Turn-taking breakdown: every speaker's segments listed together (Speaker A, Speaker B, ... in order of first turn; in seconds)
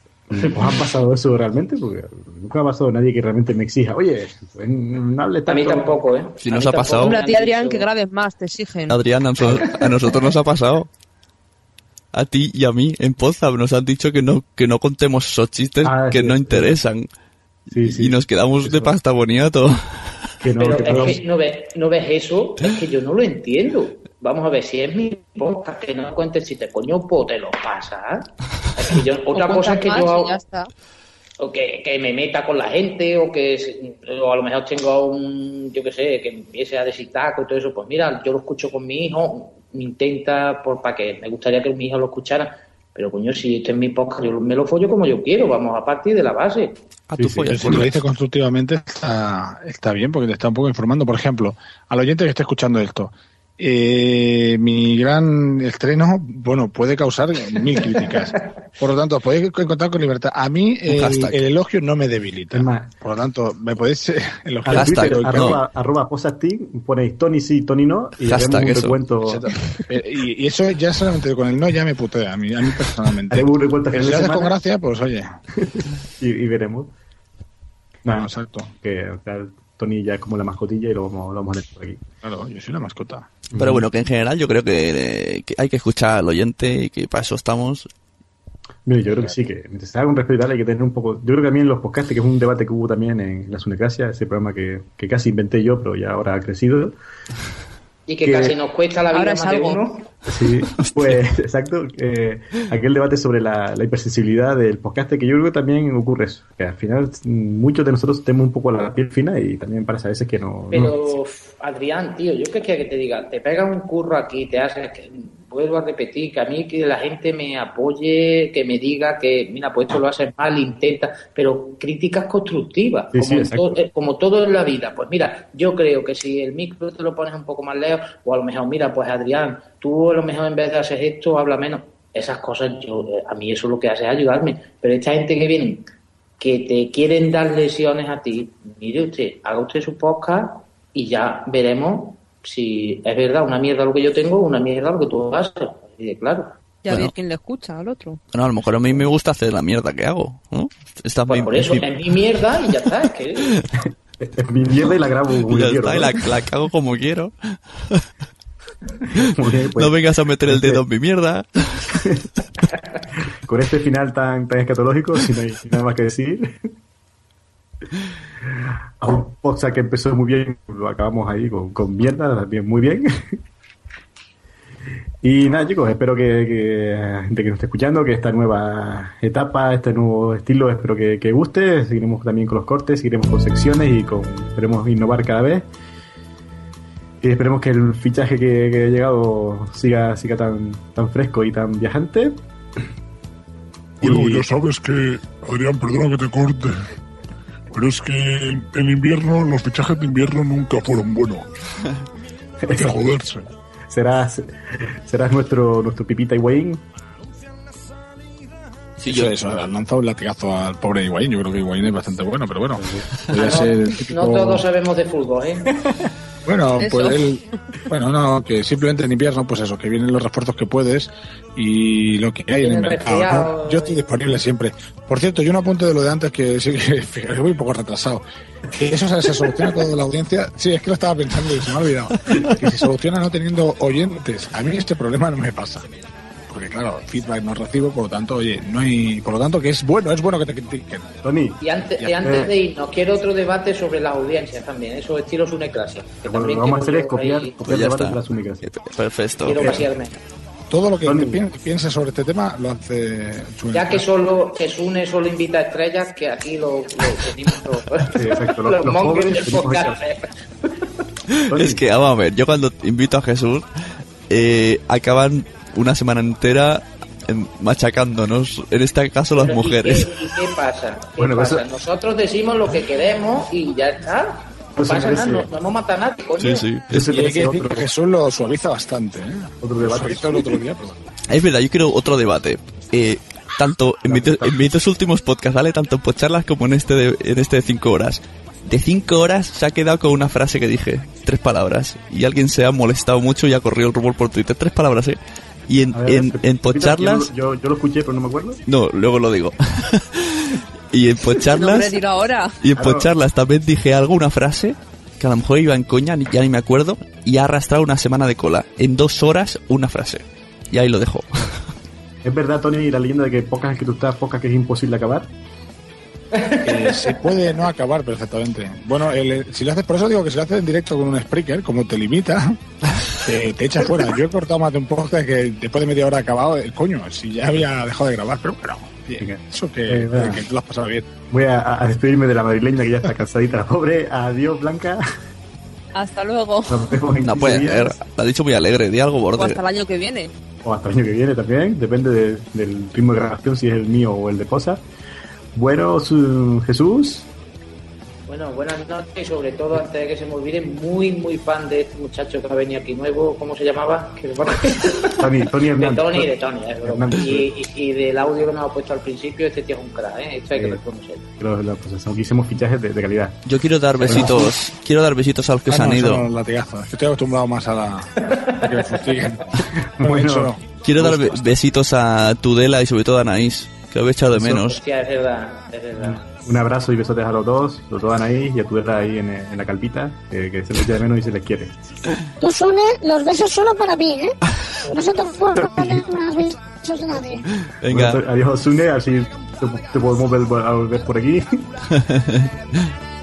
Speaker A: 0.3-6.0, 15.8-16.8, 17.7-18.9, 20.4-21.2, 47.2-47.9, 62.5-62.9, 64.6-69.5, 73.3-74.5, 75.6-76.9, 78.0-82.0, 83.5-83.9, 88.9-97.0, 98.2-98.6, 100.3-111.2, 123.1-123.8, 153.8-156.2, 159.2-159.9, 160.5-160.8, 161.9-162.2, 163.3-166.7, 168.4-173.4, 175.2-185.7, 187.2-192.4, 194.0-194.5, 202.6-203.0, 203.9-206.8, 212.8-213.1, 215.8-216.1, 241.2-241.6, 242.2-242.5, 246.2-248.6, 249.5-249.9, 251.0-251.4, 258.0-260.0, 261.5-261.8, 271.2-271.6, 274.8-275.5, 276.9-277.9, 279.6-280.4, 284.1-284.6, 295.9-298.6, 302.8-303.1, 312.2-315.3, 329.2-330.4, 331.3-335.0, 336.7-338.0, 340.6-344.8, 345.6-347.3, 355.2-356.3, 356.8-357.5, 360.5-360.8, 361.4-363.4, 364.0-364.5, 369.8-370.5, 374.3-374.7, 376.0-381.8, 385.6-386.0, 387.9-391.7
Speaker B: 0.4-0.9, 5.5-7.9, 9.5-9.7, 20.6-30.4, 31.4-46.8, 57.9-58.2, 98.1-100.1, 110.7-135.9, 136.4-146.5, 151.3-153.4, 213.3-215.7, 222.6-224.1, 241.6-247.6, 249.4-250.1, 253.7-260.3, 269.4-276.7, 316.4-317.2, 348.3-355.2, 355.8-361.2, 374.6-376.3
Speaker C: 6.4-7.2, 8.9-10.9, 12.1-17.1, 17.8-19.8, 47.1-48.0, 60.9-61.4, 64.7-65.6, 68.2-69.0, 83.6-87.9, 100.8-101.2, 148.3-152.0, 155.5-158.0, 159.8-161.9, 209.0-209.3, 247.7-249.7, 261.5-263.6, 264.3-270.1, 276.4-277.0, 281.3-297.3, 298.7-302.0, 302.6-311.4, 337.2-339.6, 363.5-366.2, 370.8-374.8, 387.8-388.2, 391.9-392.5
Speaker D: 7.0-9.0, 29.3-30.7, 99.1-99.8, 146.8-148.2, 216.8-217.3, 301.5-302.6, 335.9-336.9, 339.4-340.3
Speaker E: 47.5-65.6, 69.2-75.4, 78.1-78.7, 82.2-83.3, 209.1-214.7, 216.5-235.9, 236.5-241.2, 242.0-242.3, 250.7-254.1, 277.0-281.0, 316.6-322.6, 323.2-331.1, 365.7-368.1, 368.6-371.5
Speaker F: 194.0-196.7, 197.7-201.5, 202.7-203.5
Speaker G: 382.4-384.3, 384.9-387.4